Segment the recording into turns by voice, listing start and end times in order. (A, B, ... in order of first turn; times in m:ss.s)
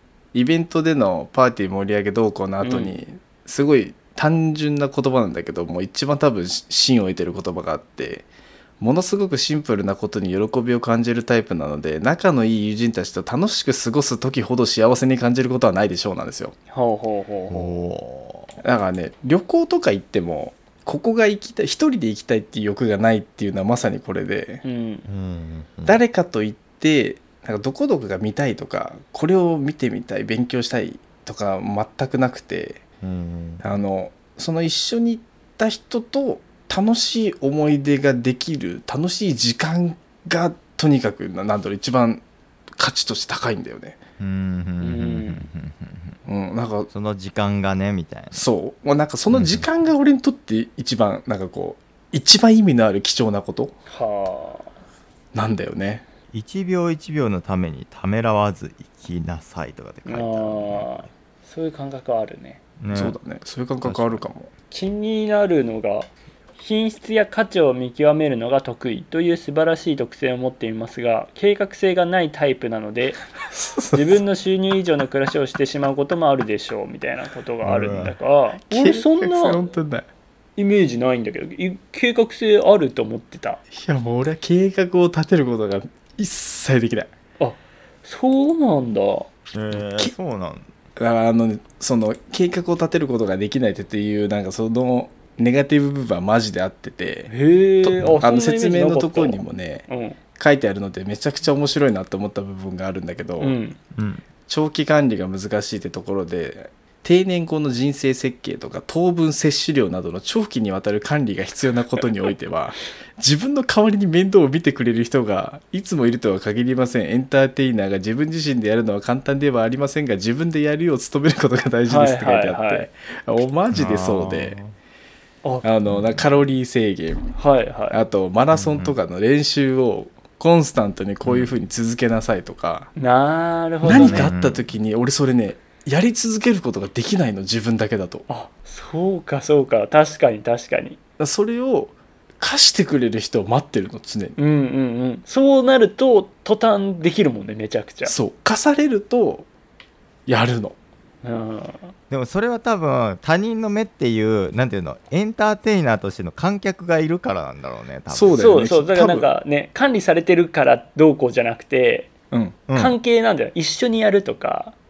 0:00.3-0:08.3 A
0:02.6-0:03.0 B
0:08.8-0:16.5 A
0:16.7-0:17.8 B
0:17.5-0:18.6 C
0:18.6-0:24.6 A
0:24.6-0:25.0 B
0:25.0-0:26.0 C
0:25.8-0:32.8 A
0:33.0-0:33.6 C
0:33.6-0:42.2 A
0:42.8-0:44.0 A
0:44.2-0:46.2 C
0:44.8-0:45.5 B
0:46.2-0:46.9 A
0:46.9-0:48.4 C
0:48.3-0:53.7 A
0:49.3-0:49.6 C
0:53.9-0:54.7 B
0:55.3-0:56.0 A
0:56.3-1:01.1 C
1:00.0-1:02.6 B
1:02.8-1:03.2 C
1:02.9-1:04.5 A
1:03.8-1:04.2 C
1:04.7-1:13.2 B
1:13.5-1:14.2 A
1:13.9-1:19.6 B
1:17.6-1:18.2 C
1:18.6-1:20.1 A
1:20.6-1:23.6 B
1:23.7-1:27.1 A
1:27.4-1:29.3 B
1:29.5-1:30.7 C
1:29.7-1:30.1 A
1:31.0-1:37.3 A
1:37.3-1:40.2 B
1:37.8-1:39.8 A
1:40.4-1:43.6 A
1:43.4-1:43.8 B
1:43.9-1:44.2 C
1:44.5-2:04.6 A
2:01.8-2:02.9 B
2:03.7-2:04.7 C
2:05.6-2:07.3 A
2:05.9-2:06.2 C
2:07.4-2:08.0 B
2:07.9-2:12.9 A
2:08.5-2:09.0 C
2:11.2-2:11.5 C
2:13.0-2:14.3 B
2:13.8-2:18.2 A
2:13.8-2:14.6 C
2:18.3-2:21.0 B
2:21.2-2:24.4 A
2:24.4-2:28.1 B
2:28.0-2:29.5 A
2:30.3-2:30.8 A
2:31.2-2:31.9 B
2:32.1-2:38.4 C
2:38.1-2:39.3 A
2:38.3-2:42.1 B
2:42.3-2:42.6 A
2:42.7-2:43.0 C
2:42.7-2:44.7 B